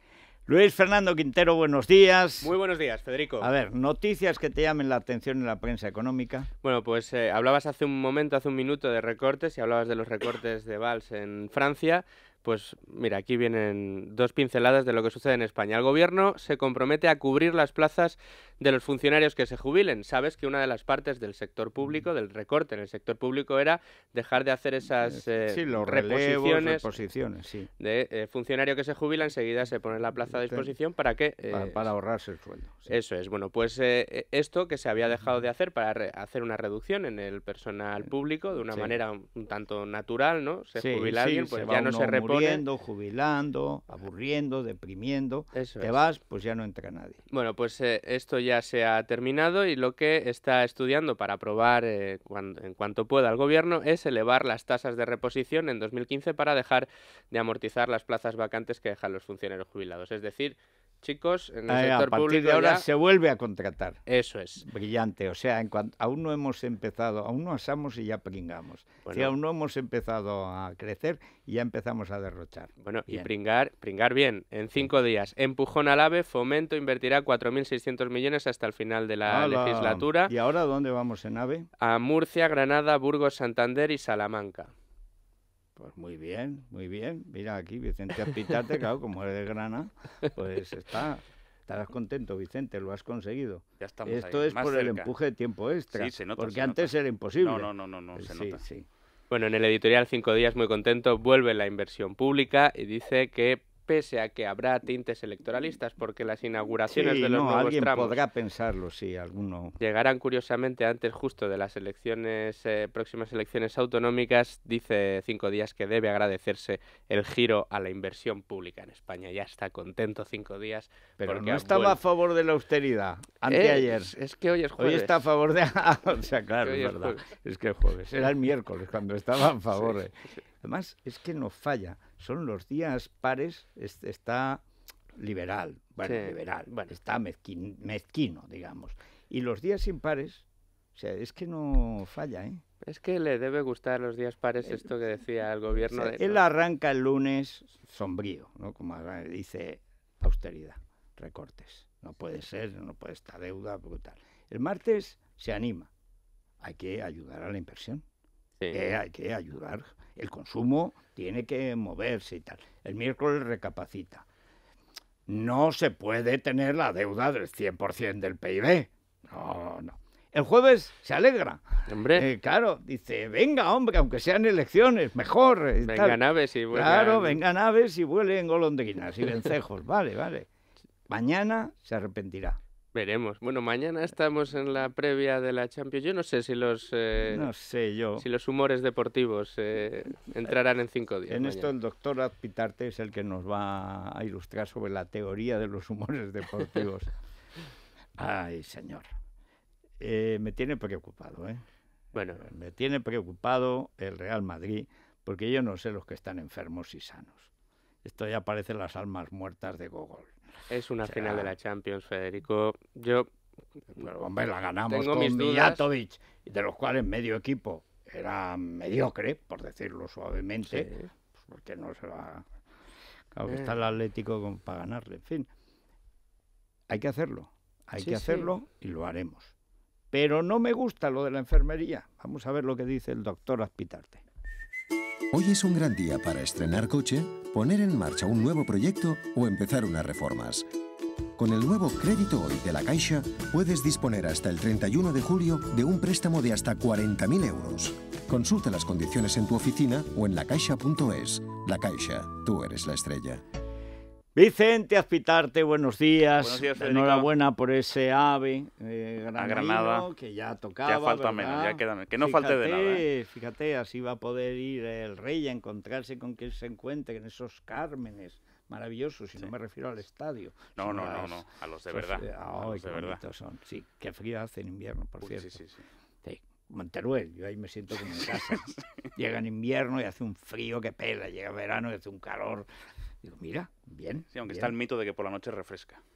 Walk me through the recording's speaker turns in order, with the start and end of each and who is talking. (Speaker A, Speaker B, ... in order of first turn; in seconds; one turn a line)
Speaker A: 0.5-2.5
Speaker B: 2.4-3.5
Speaker A: 3.4-6.5
Speaker B: 6.6-26.9
Speaker A: 25.0-27.7
Speaker B: 27.8-31.9
Speaker A: 30.3-30.7
Speaker A: 31.5-32.9
Speaker B: 32.9-42.6
Speaker A: 38.7-39.0
Speaker A: 40.8-47.2
Speaker B: 45.5-46.0
Speaker B: 47.3-62.9
Speaker A: 61.7-64.0
Speaker B: 64.1-64.7
Speaker A: 64.6-73.3
Speaker B: 69.0-69.3
Speaker B: 72.8-80.3
Speaker A: 79.3-81.7
Speaker B: 81.8-84.7
Speaker A: 85.8-98.9
Speaker C: 93.8-95.1
Speaker C: 95.9-98.6
Speaker B: 99.3-108.2
Speaker A: 106.9-109.8
Speaker B: 109.8-122.0
Speaker A: 121.2-124.1
Speaker B: 123.5-125.3
Speaker A: 124.8-134.6
Speaker B: 126.6-127.3
Speaker B: 129.7-130.0
Speaker A: 135.2-140.4
Speaker B: 136.0-136.9
Speaker A: 140.9-142.6
Speaker B: 142.8-146.4
Speaker A: 145.9-155.9
Speaker A: 156.6-158.0
Speaker A: 158.7-164.2
Speaker A: 165.3-180.5
Speaker B: 171.9-172.3
Speaker B: 175.8-177.4
Speaker A: 181.1-182.6
Speaker B: 182.9-187.5
Speaker A: 187.2-188.2
Speaker B: 188.2-191.7
Speaker A: 191.3-197.1
Speaker A: 198.2-199.1
Speaker A: 200.0-201.6
Speaker B: 202.1-202.4
Speaker A: 202.4-207.5
Speaker A: 208.0-210.3
Speaker B: 210.7-213.3
Speaker A: 211.0-211.5
Speaker A: 213.9-222.5
Speaker B: 214.9-215.9
Speaker B: 220.6-221.1
Speaker A: 223.3-225.5
Speaker B: 223.5-223.7
Speaker A: 226.9-229.5
Speaker B: 228.0-228.5
Speaker A: 230.1-234.2
Speaker D: 235.3-240.7
Speaker D: 241.4-253.4
Speaker A: 254.3-275.6
Speaker C: 256.4-257.3
Speaker C: 259.4-260.1
Speaker C: 260.9-263.1
Speaker C: 270.8-273.2
Speaker C: 275.2-275.8
Speaker A: 276.2-282.7
Speaker A: 283.2-284.7
Speaker C: 284.3-286.0